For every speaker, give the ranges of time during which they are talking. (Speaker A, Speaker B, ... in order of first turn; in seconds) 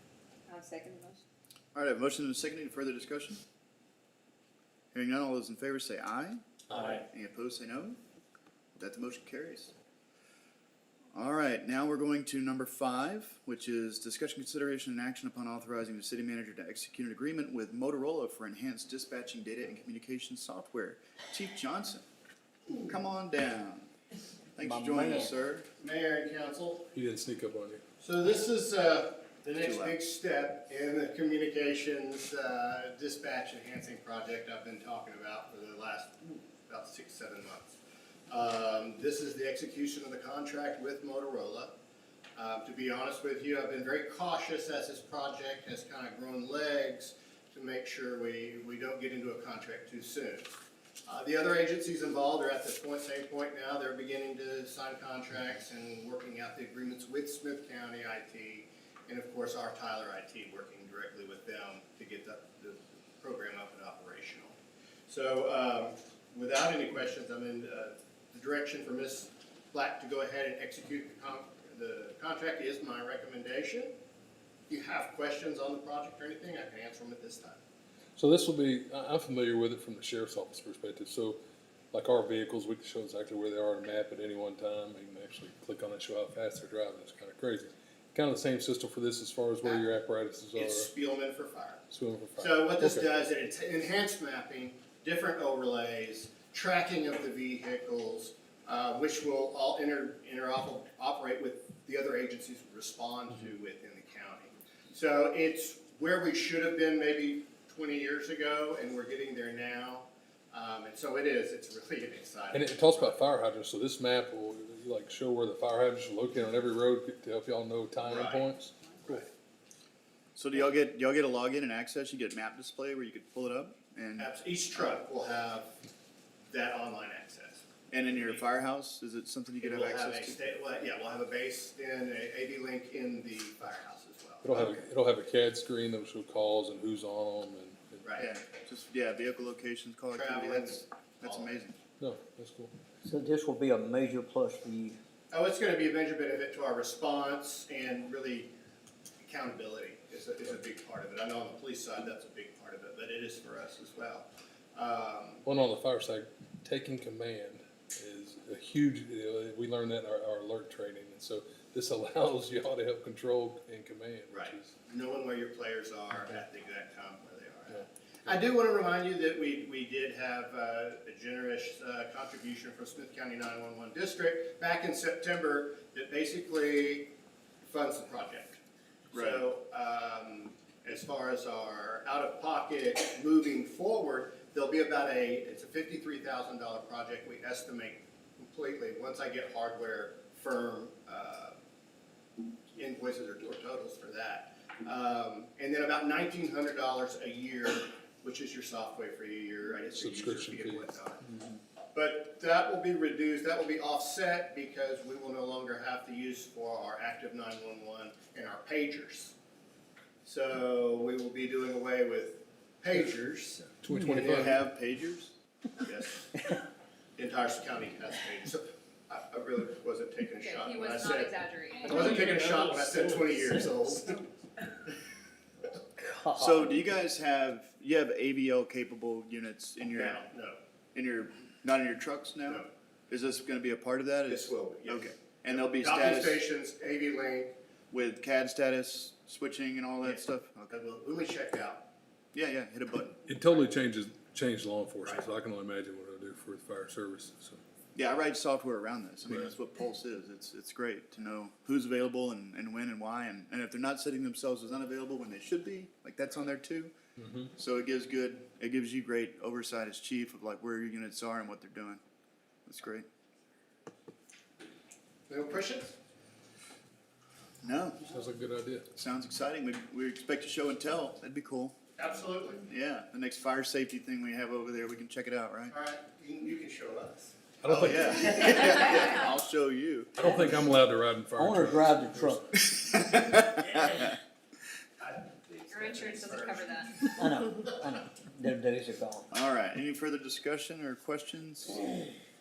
Speaker A: 0.5-1.2, 220.4-222.4, 285.7-287.0
Speaker B: 1.7-3.4, 4.9-8.0, 8.8-9.7, 11.1-22.0, 22.8-23.9, 24.6-25.6, 29.6-29.9, 120.3-124.3, 127.9-130.4, 138.2-141.8, 179.1-179.4, 214.0-215.3, 226.3-230.2, 230.9-236.4, 237.9-240.7, 242.3-243.2, 247.9-256.9, 257.5-262.0, 262.6-263.1, 267.6-268.0, 268.9-271.7, 272.6-275.7, 277.7-280.1, 283.1-284.0, 289.3-292.0
Speaker C: 24.6-25.3, 143.0-145.0, 225.9-226.8, 281.4-282.6, 287.0-289.3
Speaker D: 25.8-26.9, 28.0-41.8, 42.4-50.5, 51.1-64.5, 65.1-74.0, 74.7-77.6, 90.5-91.8, 92.4-113.3, 118.0-118.5, 124.2-125.7, 126.5-128.4, 129.6-134.8, 138.0-138.3, 140.1-141.6, 145.3-148.5, 149.2-155.4, 164.3-177.1, 177.7-178.6, 179.1-191.6, 192.7-201.2, 201.9-209.3, 210.2-214.5, 215.8-216.5, 217.2-224.2, 229.9-230.6, 234.3-237.6, 240.0-241.9, 265.3-265.9, 272.0-272.6, 275.7-279.1, 285.0-287.1
Speaker E: 26.9-27.8, 78.2-81.4, 81.9-90.9, 91.9-93.1, 112.5-119.2, 134.4-138.1, 142.0-142.7, 155.4-164.7, 199.9-200.9, 213.8-214.6, 221.8-223.9, 243.2-247.6, 257.2-257.5, 268.0-268.9, 277.6-278.5, 280.2-282.4